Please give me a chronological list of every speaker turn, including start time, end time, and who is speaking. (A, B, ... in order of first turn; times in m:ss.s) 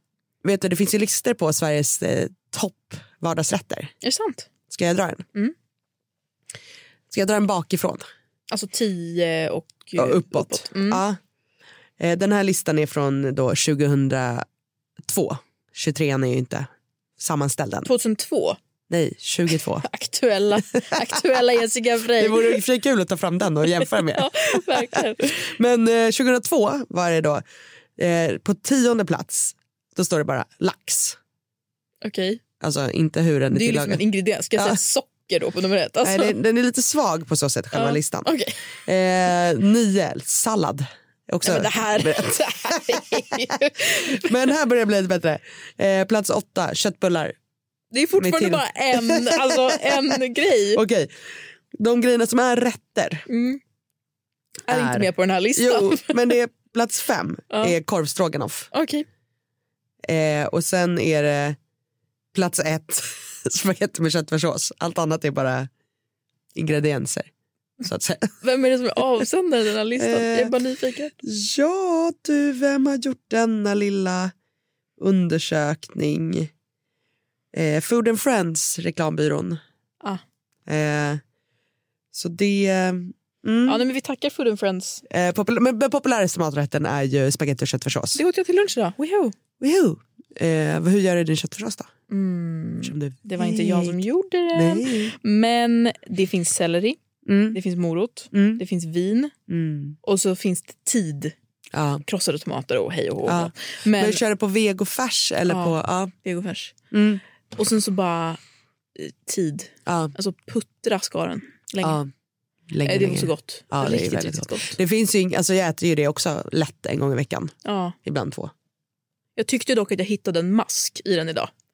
0:00.4-0:03.9 A
0:04.0-0:04.5 B
0:04.7-0:05.2 A
0:07.1-0:08.0 A
0:08.5-0:11.0 B
0:10.0-0:11.2 A
0:12.0-0:14.4 A
0:15.0-0:16.7 A
0:17.2-0:17.9 A
0:17.8-0:18.6 B
0:18.9-0:19.8 A
0:19.8-0:22.6 B
0:22.2-0:27.4 A
0:23.8-0:25.5 B
0:28.0-0:31.2 A
0:32.0-0:32.4 B
0:32.6-0:34.8 A
0:33.5-0:36.4 B
0:36.0-0:38.3 A
0:37.7-0:38.6 B
0:38.8-0:43.0 A
0:41.4-0:44.3 B
0:43.9-0:47.3 A
0:47.9-0:50.8 B
0:48.2-0:51.1 A
0:51.7-0:53.2 A
0:53.3-0:53.6 B
0:54.7-0:56.2 B
0:54.7-0:58.7 A
0:57.5-0:57.8 B
0:58.7-0:59.0 B
1:00.0-1:01.6 A
1:02.3-1:05.7 A
1:06.5-1:07.3 A
1:07.8-1:08.4 A
1:08.4-1:11.1 B
1:10.0-1:10.6 A
1:11.2-1:14.3 A
1:15.0-1:16.5 A
1:17.5-1:19.6 A
1:20.7-1:21.2 A
1:22.1-1:23.8 A
1:23.6-1:25.0 B
1:25.1-1:28.2 A
1:28.1-1:29.3 B
1:29.6-1:31.9 A
1:32.1-1:37.0 B
1:32.8-1:34.0 A
1:34.5-1:35.1 A
1:37.2-1:37.6 A
1:37.5-1:39.3 B
1:38.3-1:38.6 A
1:39.5-1:40.0 A
1:40.0-1:41.3 B
1:41.7-1:42.0 A
1:42.0-1:44.2 B
1:43.2-1:46.1 A
1:45.4-1:46.7 B
1:46.9-1:47.2 A
1:47.5-1:48.4 B
1:49.0-1:52.0 B
1:49.8-1:50.1 A
1:51.8-1:52.1 A
1:52.7-1:58.5 A
1:52.8-1:54.8 B
1:57.6-1:58.0 B
1:59.4-2:01.5 B